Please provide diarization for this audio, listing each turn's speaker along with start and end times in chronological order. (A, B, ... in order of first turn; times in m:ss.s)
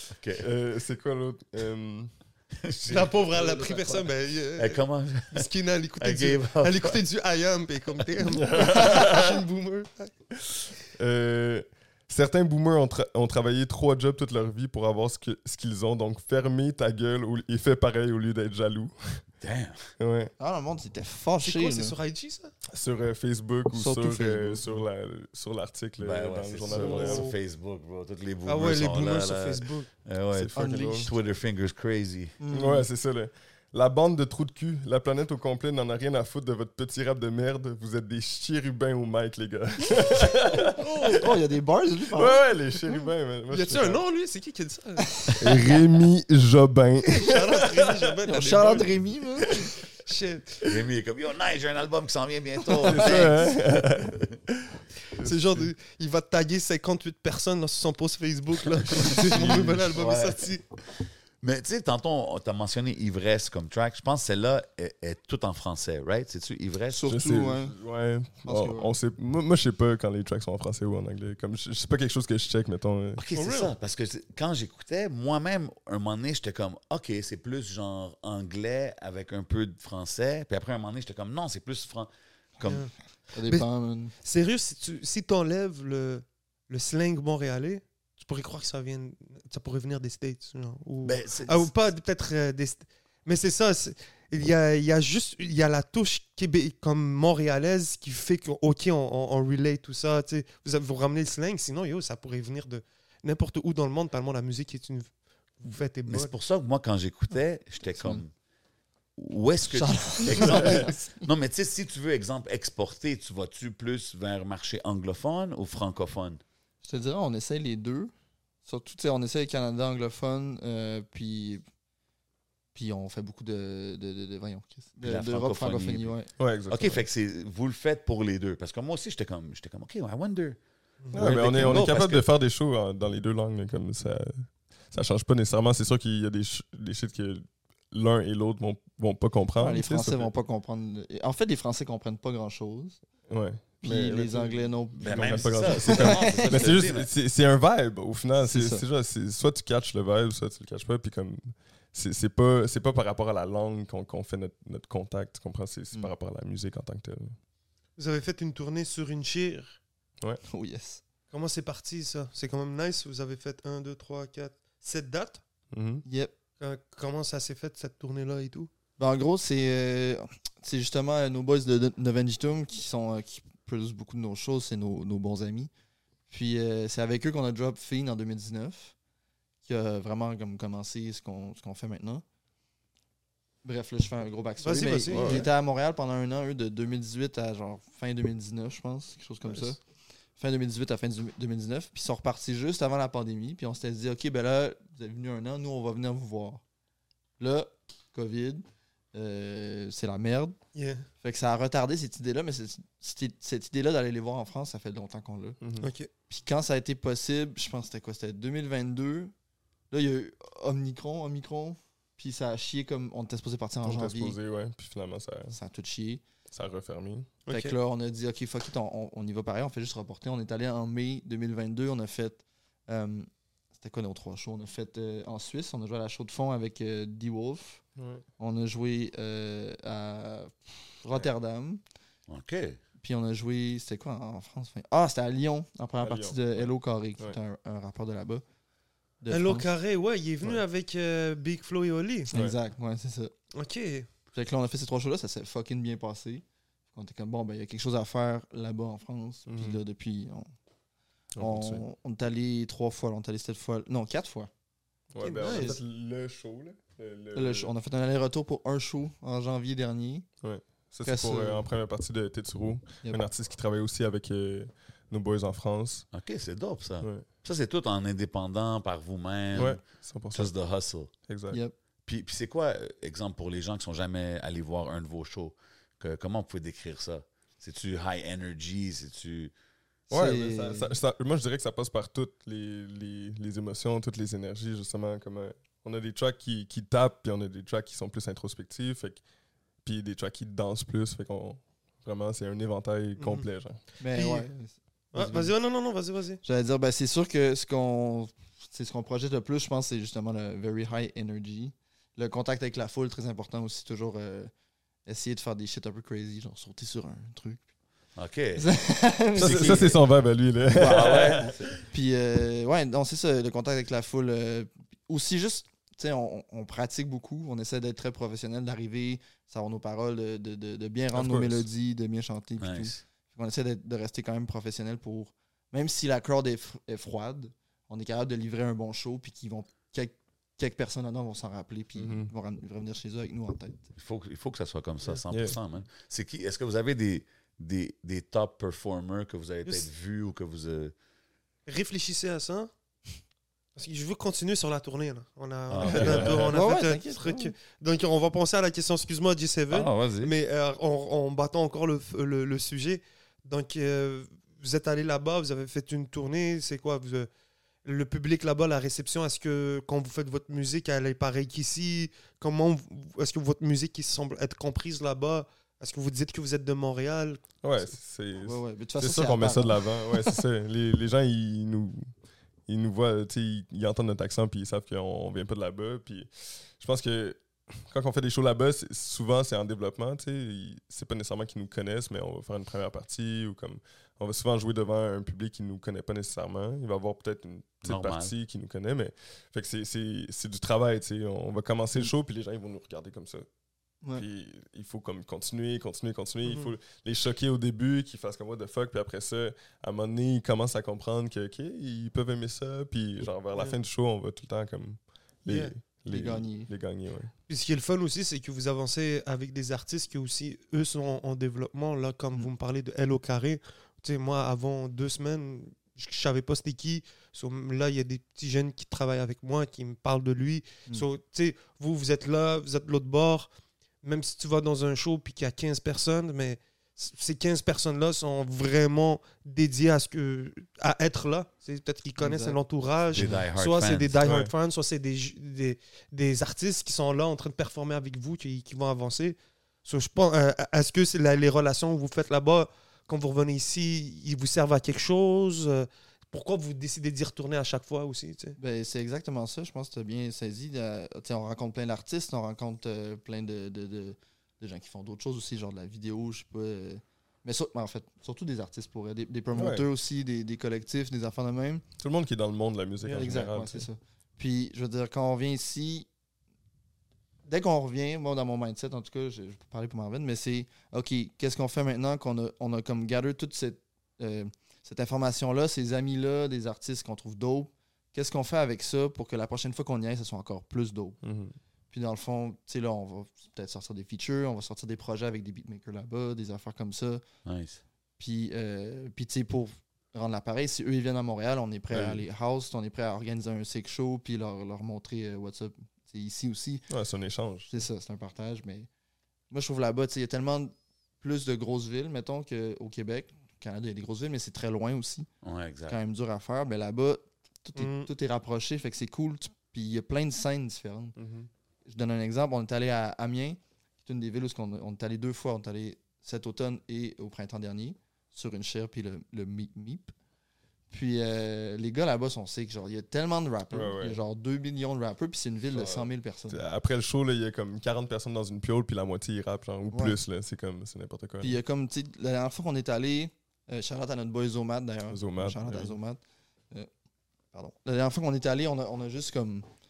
0:00.2-0:00.5 A
0:00.4-0:02.1 B
0:02.6-0:03.7 A
0:02.9-0:10.1 C
0:03.5-0:03.8 D
0:04.6-0:05.5 A
0:06.0-0:07.0 A
0:08.3-0:09.4 B
0:10.9-0:19.2 B
0:19.4-0:19.9 A
0:20.0-0:20.3 B
0:20.4-0:21.9 D
0:21.4-0:22.5 C
0:22.7-0:27.3 B
0:23.7-0:24.6 D
0:26.0-0:32.4 A
0:26.7-0:27.3 C
0:28.4-0:29.9 C
0:30.3-0:31.1 B
0:30.5-0:31.1 D
0:32.4-0:32.9 D
0:32.5-0:41.1 B
0:40.8-0:42.4 D
0:42.1-0:44.0 B
0:43.5-0:45.0 C
0:45.2-0:45.7 D
0:45.4-0:48.0 B
0:47.1-0:48.9 C
0:48.3-0:49.7 D
0:50.0-0:50.6 C
0:50.6-0:54.2 A
0:52.8-0:55.7 B
0:55.1-1:00.6 C
0:58.9-1:07.1 A
0:59.0-0:59.9 B
1:06.9-1:07.7 D
1:07.1-1:13.2 B
1:08.4-1:08.9 D
1:13.2-1:22.9 A
1:13.3-1:13.7 C
1:22.6-1:22.9 C
1:23.3-1:24.1 D
1:24.2-1:46.3 C
1:31.0-1:31.7 A
1:46.1-1:48.3 A
1:48.0-1:48.2 D
1:49.2-1:56.4 A
1:49.7-1:51.2 D
1:56.8-1:58.1 D
1:58.6-2:01.6 D
2:02.7-2:06.3 D
2:05.0-2:06.1 A
2:06.4-2:07.0 B
2:06.7-2:10.6 A
2:11.0-2:11.3 C
2:11.1-2:12.3 A
2:11.1-2:20.3 B
2:19.6-2:23.0 D
2:23.3-2:37.4 B
2:23.8-2:26.7 D
2:25.0-2:27.1 A
2:28.4-2:28.8 D
2:38.0-2:39.8 C
2:40.5-2:41.0 D
2:41.3-2:45.4 C
2:45.7-2:46.0 B
2:46.0-2:46.3 D
2:46.6-2:48.7 C
2:49.0-2:55.7 D
2:56.3-2:58.9 D
2:59.6-3:02.2 D
3:03.6-3:09.8 D
3:04.6-3:05.4 C
3:05.1-3:05.5 B
3:10.4-3:16.6 D
3:17.4-3:20.6 D
3:20.7-3:21.0 C
3:21.2-3:25.6 D
3:25.6-3:25.9 B
3:25.8-3:26.1 C
3:26.3-3:29.3 D
3:29.9-3:34.4 D
3:33.8-3:35.6 B
3:35.5-3:36.2 D
3:36.5-3:37.3 B
3:37.4-3:37.7 C
3:37.5-3:47.8 D
3:48.0-3:48.2 B
3:48.4-3:51.8 D
3:52.3-3:52.8 A
3:53.0-3:58.4 D
3:56.0-3:57.4 B
3:59.2-3:59.7 D
3:59.3-4:02.3 C
4:02.3-4:03.3 D
4:03.5-4:04.1 C
4:04.3-4:10.5 D
4:09.5-4:09.8 B
4:11.4-4:11.8 B
4:11.4-4:14.5 D
4:15.1-4:17.7 B
4:15.2-4:15.7 C
4:15.4-4:15.8 D
4:17.3-4:20.3 D
4:20.4-4:26.0 B
4:21.0-4:21.6 D
4:23.0-4:23.3 D
4:26.1-4:29.8 A
4:27.0-4:27.2 B
4:29.5-4:30.5 B
4:30.3-4:31.1 A
4:31.3-4:31.6 B
4:32.0-4:39.5 A
4:40.1-4:41.0 D
4:40.1-4:49.2 B
4:49.8-4:53.8 B
4:53.2-4:53.4 C
4:54.0-4:55.5 D
4:54.1-4:54.5 C
4:55.1-4:56.4 C
4:56.4-5:04.5 D
5:05.0-5:07.6 D
5:08.2-5:08.7 A
5:08.6-5:10.0 D
5:09.4-5:11.5 B
5:09.4-5:09.8 A
5:10.7-5:33.8 D
5:10.8-5:11.7 A
5:21.1-5:21.6 B
5:22.6-5:23.0 A
5:32.0-5:32.3 B
5:34.0-5:40.9 A
5:35.3-5:35.6 B
5:41.7-5:42.7 C
5:43.8-5:57.3 C
5:45.7-5:46.5 A
5:45.9-5:46.5 B
5:46.5-5:47.5 D
5:49.7-5:50.3 A
5:57.8-6:07.4 C
6:07.6-6:12.1 B
6:08.4-6:10.4 D
6:12.7-6:33.5 B
6:27.8-6:28.3 A
6:34.1-6:47.3 B
6:36.4-6:36.7 C
6:45.5-6:45.7 C
6:46.1-6:46.7 D
6:47.5-7:03.5 C
7:04.0-7:28.6 C
7:12.2-7:12.6 D
7:13.1-7:14.2 A
7:14.2-7:14.5 B
7:28.6-7:41.8 D
7:39.5-7:39.9 B
7:42.0-7:43.9 B
7:43.0-7:46.1 D
7:47.5-8:01.2 D
8:01.2-8:01.6 B
8:01.9-8:07.2 D
8:07.4-8:07.8 A
8:08.2-8:16.8 D
8:11.9-8:12.2 A
8:16.9-8:17.7 B
8:17.7-8:18.9 D
8:19.5-8:25.3 D
8:25.4-8:26.0 A
8:25.9-8:31.2 D
8:27.8-8:28.1 C
8:31.2-8:31.5 B
8:31.8-8:40.1 D
8:40.9-8:46.6 D
8:43.7-8:44.2 B
8:45.7-8:51.6 B
8:49.9-8:50.2 D
8:51.4-8:56.9 D
8:55.1-8:55.9 B
8:57.5-8:59.6 D